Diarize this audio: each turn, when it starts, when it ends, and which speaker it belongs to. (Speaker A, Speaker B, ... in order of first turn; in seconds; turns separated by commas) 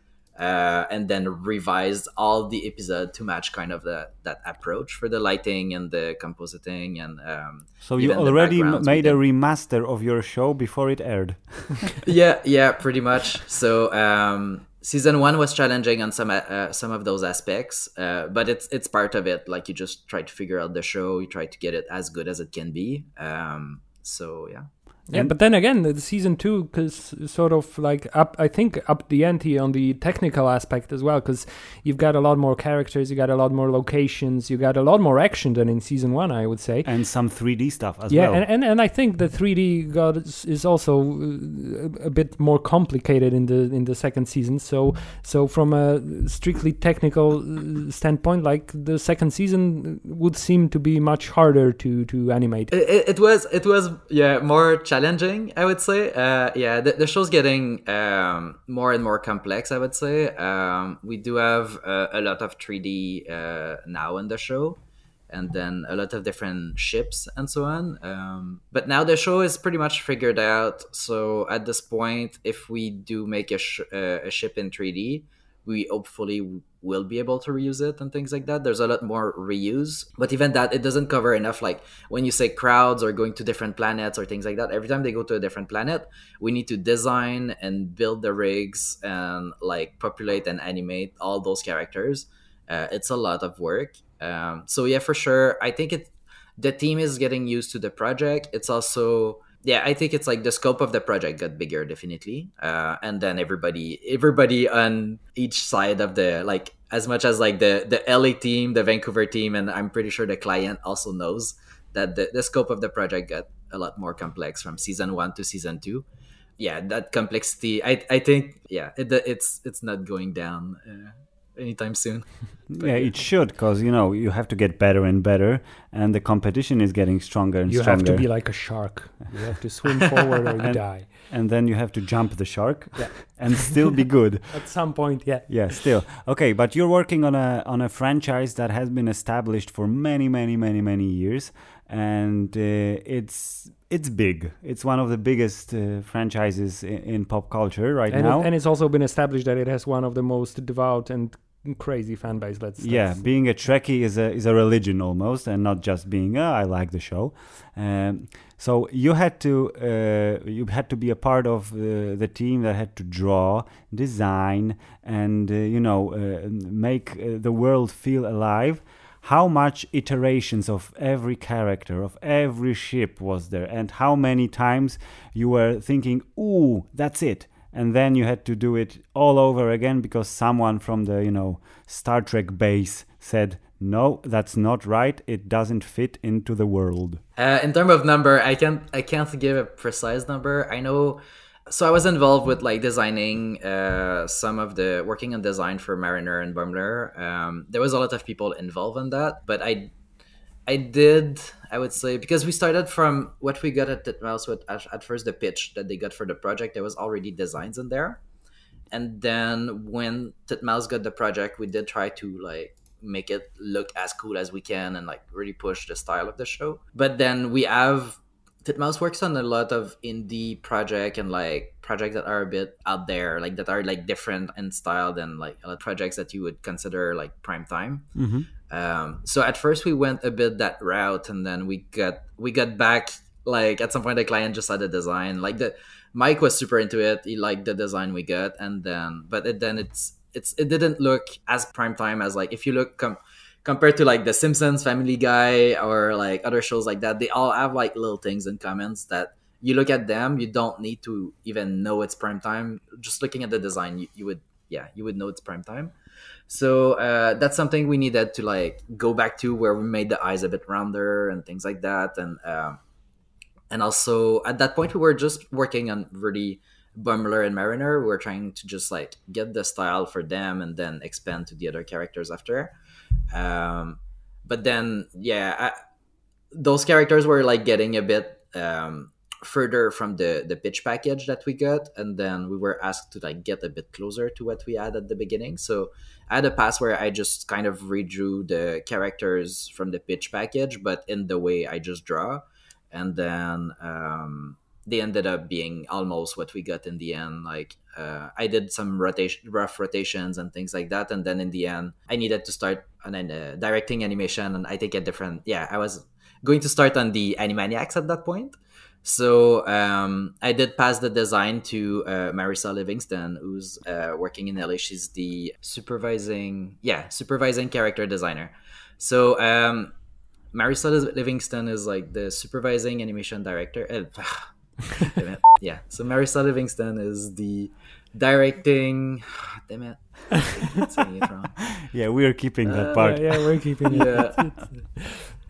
Speaker A: 0.4-9.2, Speaker B: 7.8-11.9, Speaker A: 12.0-24.7, Speaker C: 25.1-36.9, Speaker B: 36.8-38.4, Speaker C: 38.1-52.7, Speaker A: 52.7-116.0, Speaker A: 116.6-123.2, Speaker B: 122.7-128.8, Speaker C: 127.7-131.1, Speaker B: 130.6-148.5, Speaker C: 132.9-133.9, Speaker C: 134.5-136.0, Speaker C: 148.1-153.3, Speaker B: 152.8-187.2, Speaker A: 187.3-199.9, Speaker A: 200.7-208.2, Speaker A: 208.9-255.9, Speaker B: 228.2-228.5, Speaker A: 256.5-262.8, Speaker A: 263.7-272.7, Speaker A: 273.3-275.7, Speaker A: 276.5-319.9, Speaker A: 320.5-331.7, Speaker B: 331.7-333.5, Speaker A: 332.7-333.0, Speaker C: 332.9-335.3, Speaker A: 333.9-334.6